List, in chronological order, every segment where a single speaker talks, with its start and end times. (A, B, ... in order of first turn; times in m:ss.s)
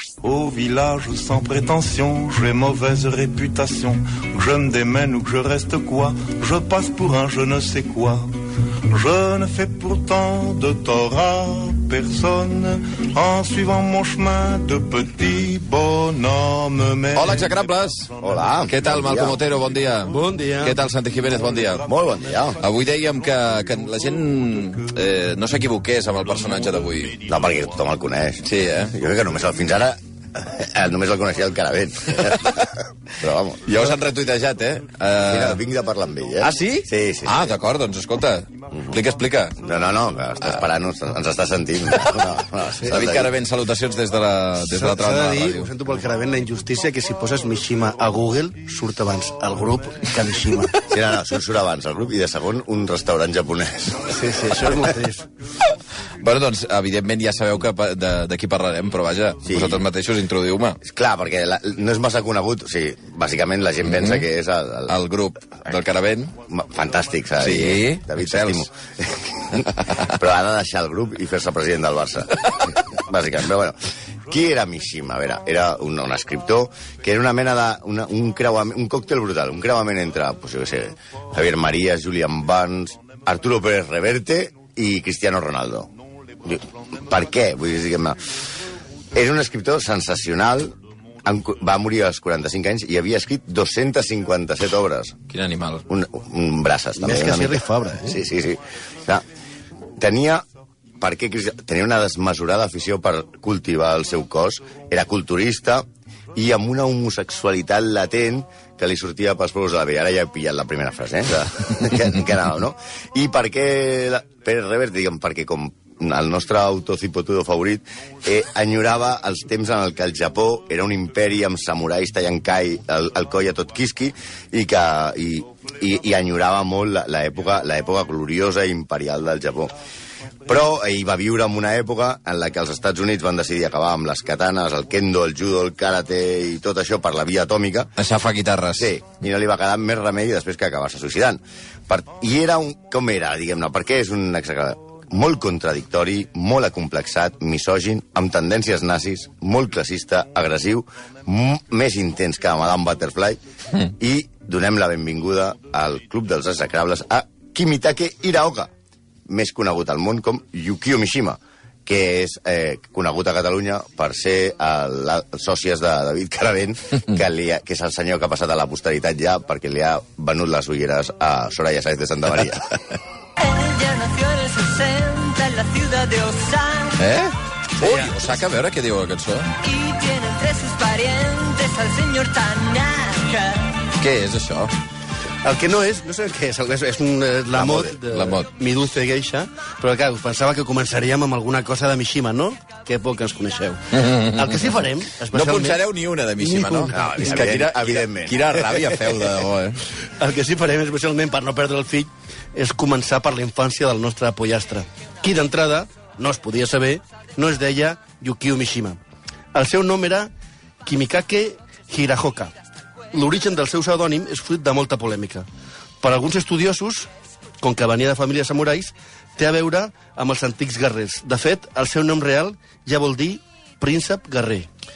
0:00.2-0:08.4 A
0:08.9-0:17.7 A
0:17.2-0:18.1 B
0:18.2-0:19.4 C
0:18.7-0:21.9 B
0:20.1-0:20.8 D
0:21.8-0:22.6 C
0:22.6-0:27.2 B
0:27.2-0:33.8 C
0:28.4-0:29.0 B
0:33.7-0:35.6 B
0:35.2-0:37.6 C
0:36.4-0:39.6 B
0:38.7-0:39.0 C
0:39.6-0:43.3 C
0:42.9-0:45.7 B
0:44.6-0:50.8 D
0:50.9-0:54.4 C
0:54.1-0:55.3 D
0:56.2-1:00.8 B
0:59.4-0:59.8 C
1:00.8-1:05.0 C
1:03.9-1:04.2 B
1:04.9-1:06.3 B
1:06.5-1:13.8 C
1:07.4-1:08.7 B
1:14.3-1:25.9 C
1:26.4-1:28.3 C
1:29.1-1:35.2 C
1:35.3-1:35.8 B
1:35.9-1:39.2 C
1:37.0-1:38.2 D
1:40.0-1:40.4 C
1:41.0-2:09.7 C
2:10.5-2:17.9 C
2:18.0-2:18.9 B
2:18.8-2:38.7 C
2:39.3-2:52.8 C
2:53.4-2:57.0 E
2:57.0-2:59.5 B
2:57.8-2:58.2 D
2:59.6-3:03.9 E
3:04.0-3:04.7 B
3:05.4-3:15.8 D
3:07.6-3:08.0 C
3:08.1-3:08.5 B
3:13.9-3:14.7 B
3:15.3-3:19.8 B
3:16.4-3:17.4 D
3:16.9-3:18.6 C
3:20.2-3:29.0 D
3:29.5-3:30.3 D
3:30.8-3:32.5 D
3:33.1-3:35.5 D
3:36.0-3:37.1 D
3:37.6-3:44.7 D